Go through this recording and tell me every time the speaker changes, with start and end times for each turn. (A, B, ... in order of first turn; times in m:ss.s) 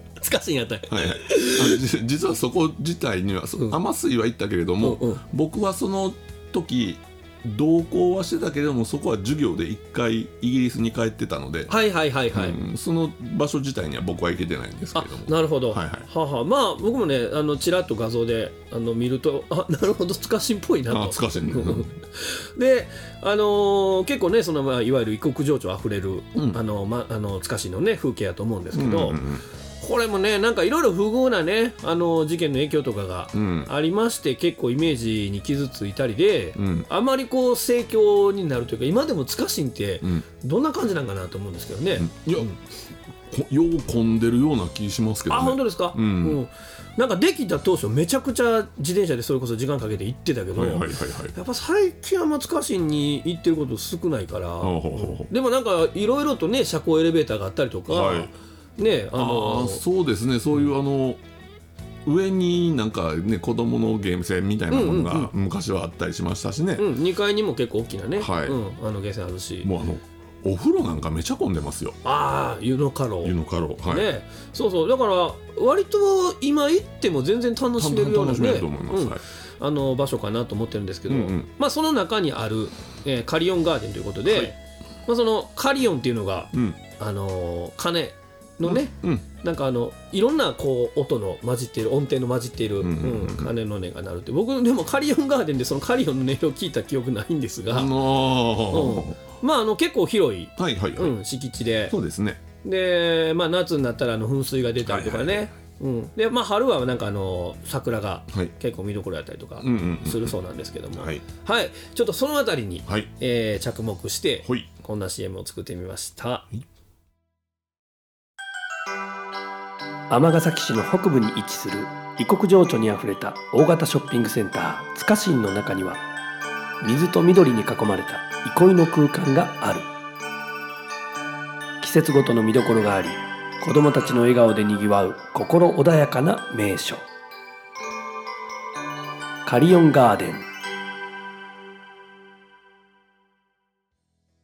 0:00.2-0:01.8 A
0:00.9-0:11.8 B
0:04.8-0:05.2 A
0:11.7-0:12.6 A
0:12.3-0:16.1 B
0:15.0-0:29.2 A
0:20.9-0:22.0 B
0:28.7-0:29.4 B
0:29.8-0:42.6 A
0:33.3-0:33.7 B
0:36.6-0:36.9 B
0:42.0-0:42.6 B
0:43.3-0:46.4 B
0:45.3-0:59.8 A
0:50.6-0:51.4 B
0:54.6-0:55.3 B
0:57.9-0:58.3 B
0:59.2-1:01.2 B
1:02.0-1:06.9 B
1:04.7-1:05.3 A
1:06.8-1:09.7 A
1:08.2-1:08.6 B
1:09.6-1:12.0 B
1:12.0-1:13.4 A
1:13.2-1:14.1 B
1:13.9-1:38.0 A
1:17.8-1:19.2 B
1:21.1-1:21.5 B
1:24.3-1:24.5 B
1:26.5-1:26.8 B
1:28.6-1:29.2 B
1:32.8-1:33.5 B
1:37.7-1:39.2 B
1:38.7-1:42.0 A
1:40.6-1:41.2 B
1:41.9-1:42.4 B
1:42.6-1:56.5 A
1:44.8-1:45.5 B
1:49.6-1:50.4 B
1:51.0-1:51.2 B
2:00.1-2:06.0 C
2:06.8-2:09.9 C
2:11.8-2:17.0 C
2:19.4-2:20.5 C